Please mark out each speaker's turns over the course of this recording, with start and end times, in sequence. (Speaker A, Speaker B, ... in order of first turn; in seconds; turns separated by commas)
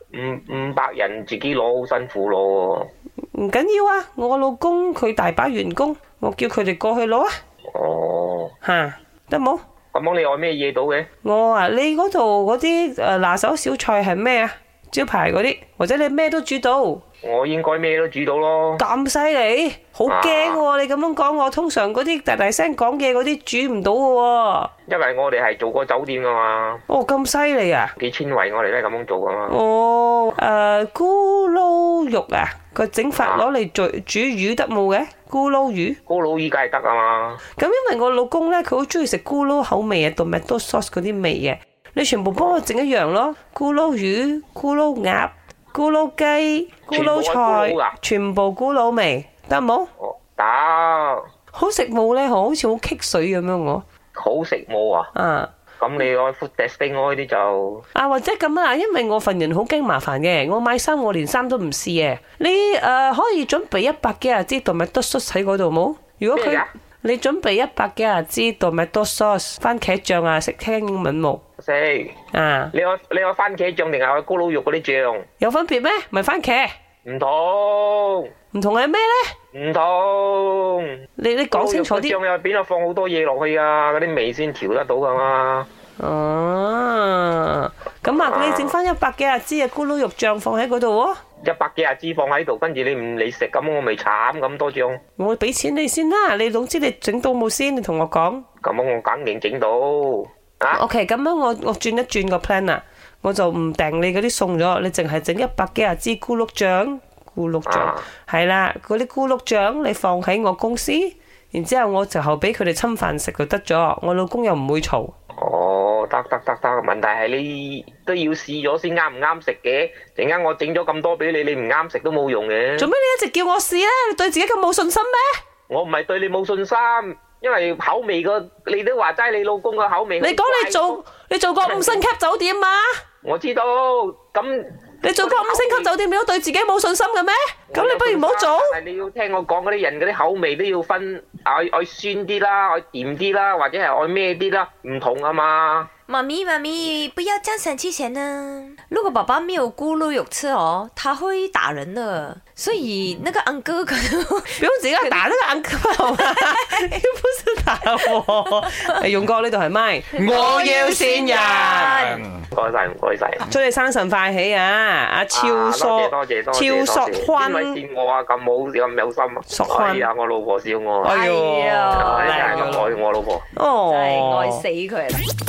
Speaker A: 0.1-2.9, Speaker B: 3.3-7.3, Speaker A: 7.7-8.5, Speaker B: 8.6-9.6, Speaker A: 9.9-11.1, Speaker B: 11.2-17.0, Speaker A: 17.2-18.8, Speaker B: 18.8-24.7, Speaker A: 20.1-20.6, Speaker A: 24.9-26.8, Speaker B: 26.9-27.9, Speaker A: 28.0-29.6, Speaker B: 29.5-36.0, Speaker A: 33.2-33.5, Speaker A: 36.1-37.4, Speaker B: 37.6-49.9, Speaker A: 42.3-42.6, Speaker A: 46.9-48.0, Speaker A: 50.0-51.2, Speaker B: 51.5-53.8, Speaker A: 54.1-55.1, Speaker B: 55.1-55.5, Speaker A: 55.8-57.8, Speaker B: 57.9-71.4, Speaker A: 66.3-66.7, Speaker A: 71.6-72.2, Speaker B: 72.3-72.7, Speaker A: 72.7-75.2, Speaker B: 75.4-76.7, Speaker A: 77.0-78.3, Speaker B: 78.5-79.3, Speaker A: 79.5-81.0, Speaker B: 81.2-82.2, Speaker A: 81.5-85.7, Speaker B: 86.0-91.2, Speaker A: 88.0-88.8, Speaker A: 91.4-95.0, Speaker B: 95.2-98.5, Speaker A: 98.6-100.8, Speaker B: 100.7-115.1, Speaker A: 107.7-108.1, Speaker A: 115.3-122.9, Speaker B: 122.8-125.4, Speaker A: 125.7-131.0, Speaker B: 130.2-132.9, Speaker A: 131.6-132.0, Speaker A: 133.2-135.9, Speaker B: 135.0-138.8, Speaker A: 137.7-145.9, Speaker C: 146.1-154.6, Speaker B: 154.5-162.2, Speaker C: 156.4-156.7, Speaker C: 160.2-162.3, Speaker A: 162.5-163.5, Speaker B: 163.4-167.8, Speaker A: 165.3-171.1, Speaker B: 169.5-170.1, Speaker B: 171.0-172.9, Speaker C: 171.0-172.8, Speaker A: 171.9-173.4, Speaker B: 173.5-174.6, Speaker C: 173.9-175.2